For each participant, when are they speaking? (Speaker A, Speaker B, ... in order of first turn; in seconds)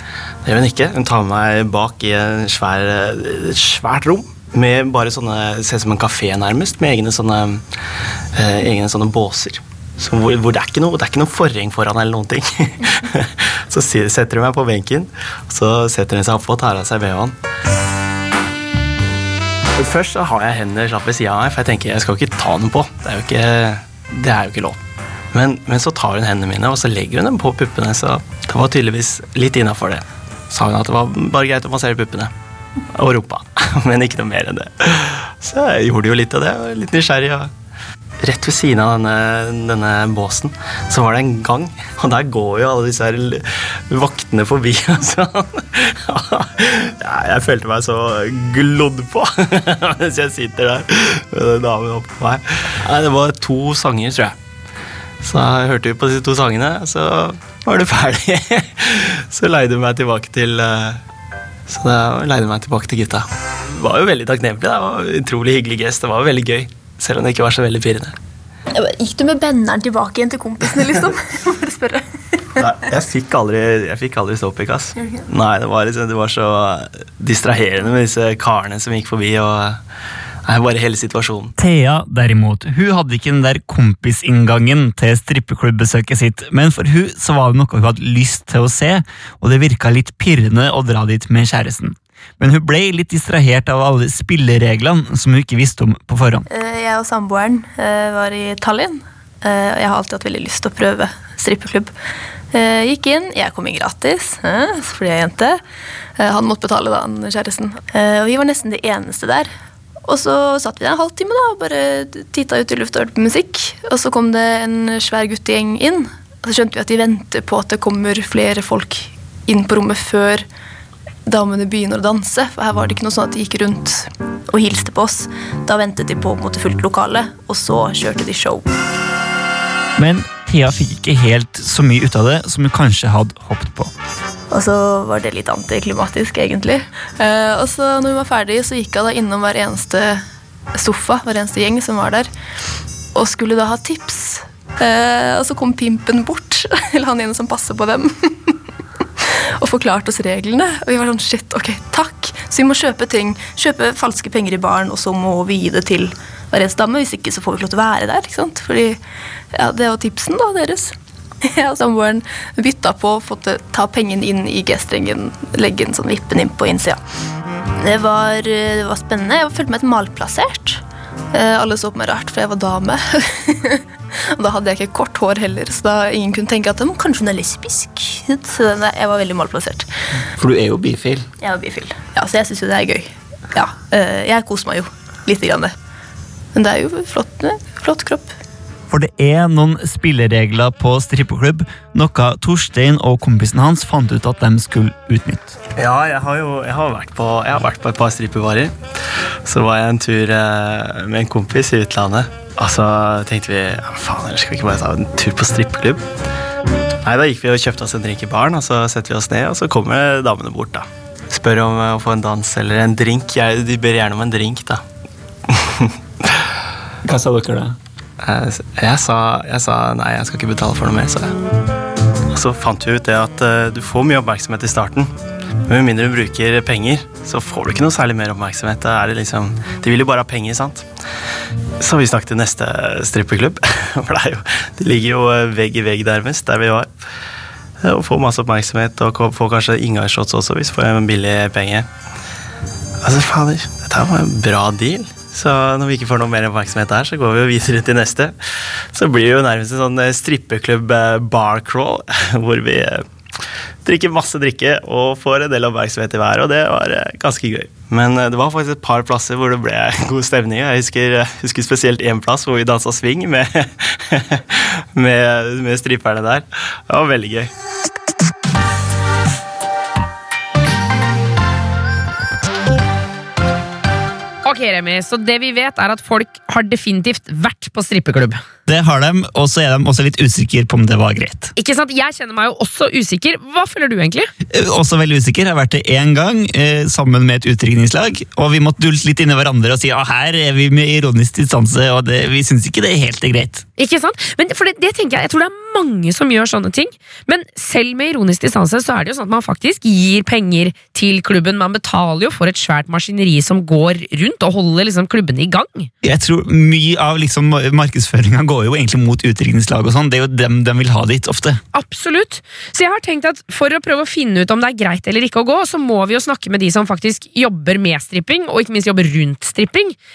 Speaker A: 0.4-7.6, 8.3-17.4, 19.8-24.8, 25.3-32.3, 32.9-37.5, 38.2-54.4, 55.2-61.0, 61.7-68.1, 72.6-79.8, 80.5-81.5, 195.8-198.7, 199.4-206.1, 207.0-214.8, 215.5-215.9, 218.2-221.3, 222.3-225.1, 225.7-230.9, 231.8-236.9, 237.8-241.9, 243.0-248.4, 248.9-253.0, 253.8-267.5
Speaker B: 68.7-72.0, 96.5-101.9, 102.5-105.6, 106.2-109.5, 110.0-120.5, 121.2-128.7, 134.5-140.2, 140.8-142.3, 143.1-148.5, 149.6-159.0, 159.5-160.9, 161.5-167.0, 167.8-173.8, 174.4-179.9, 181.4-185.7, 186.5-188.3
Speaker C: 81.6-96.5, 130.0-133.9, 180.4-181.3, 188.9-195.5, 217.0-217.8, 278.7-281.5, 284.5-293.6, 306.0-311.6
Speaker D: 274.4-278.4, 281.6-284.3, 293.8-305.9, 311.7-319.9